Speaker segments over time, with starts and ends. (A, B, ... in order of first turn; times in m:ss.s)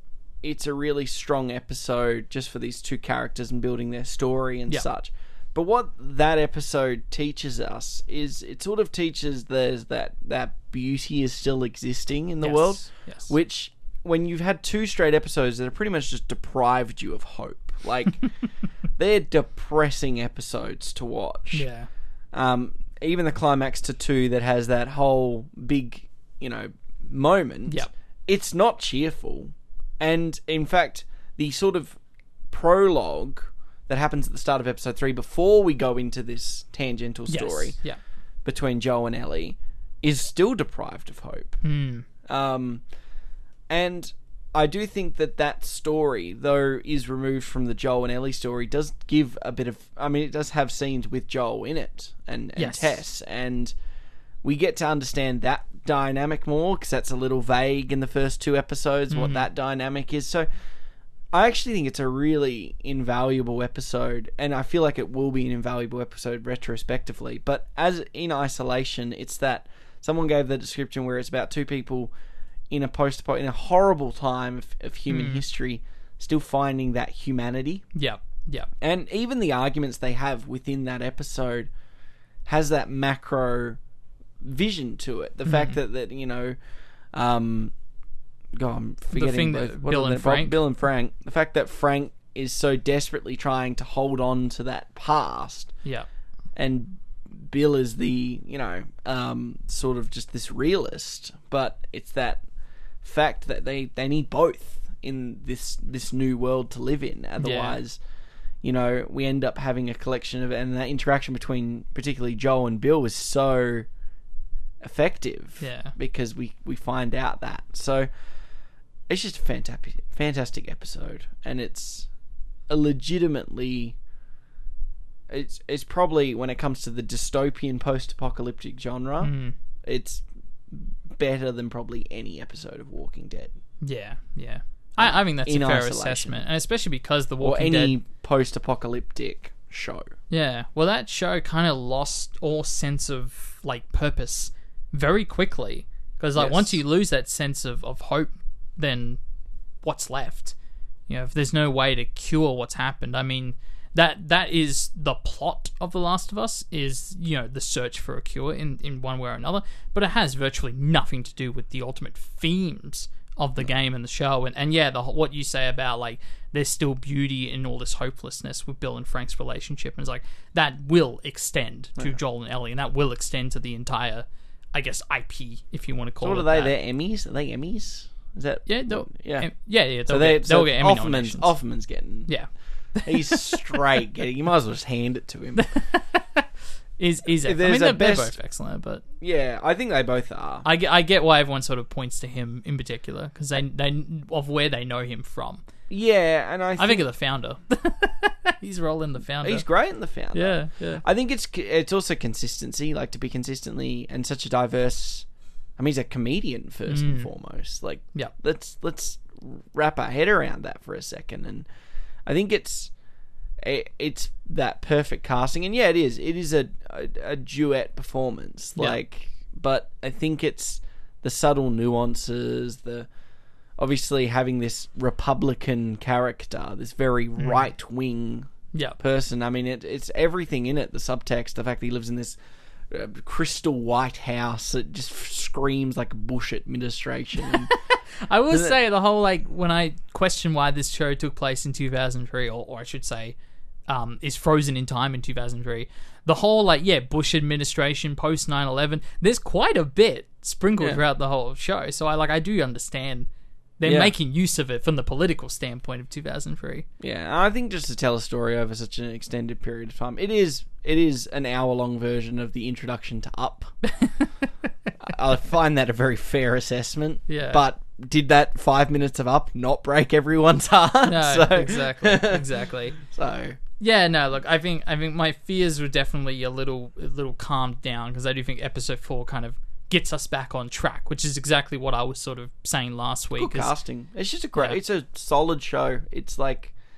0:00.4-0:21.7 A
0:12.4-0:13.3 B
0:21.5-0:21.9 B
0:22.3-0:41.6 A
0:37.3-0:38.0 B
0:41.6-0:42.1 B
0:42.3-0:42.8 A
0:43.7-0:53.7 A
0:52.6-0:53.0 B
0:54.4-1:00.5 A
0:59.1-0:59.5 B
1:01.3-1:12.1 A
1:12.7-1:17.8 A
1:15.1-1:15.4 B
1:17.9-1:18.7 B
1:18.8-1:21.7 A
1:22.5-1:23.8 A
1:24.4-1:26.6 A
1:25.5-1:25.8 B
1:27.1-1:27.7 A
1:28.6-1:35.8 A
1:29.1-1:30.6 B
1:36.6-1:42.4 A
1:43.0-1:48.0 A
1:47.4-1:47.8 B
1:48.6-1:53.9 A
1:54.8-1:58.1 A
1:55.6-1:56.0 B
1:59.1-2:02.1 A
2:02.7-2:04.0 A
2:05.3-2:13.6 A
2:09.2-2:09.6 B
2:13.8-2:18.0 B
2:15.0-2:16.4 A
2:17.4-2:20.1 A
2:20.3-2:29.2 B
2:26.4-2:26.8 A
2:29.8-2:30.6 B
2:31.1-2:56.7 B
2:56.2-3:02.5 A
2:58.7-3:01.6 B
3:02.3-3:03.8 B
3:03.0-3:05.7 A
3:05.6-3:09.0 B
3:07.4-3:08.4 A
3:09.2-3:10.7 A
3:10.6-3:15.6 B
3:15.9-3:17.1 A
3:16.8-3:21.0 B
3:19.4-3:31.7 A
3:26.9-3:27.3 B
3:32.2-3:32.9 A
3:33.6-3:43.1 A
3:43.8-3:52.4 A
3:47.4-3:47.7 B
3:48.7-3:49.0 B
3:52.9-3:57.8 A
3:58.2-4:03.4 B
3:58.5-3:58.8 A
4:03.9-4:16.9 B
4:13.8-4:14.1 A
4:17.0-4:23.8 A
4:23.9-4:24.7 B
4:25.0-4:32.5 A
4:27.3-4:27.6 B
4:31.1-4:33.0 B
4:33.0-4:33.6 A
4:33.8-4:43.8 B
4:43.4-4:46.7 A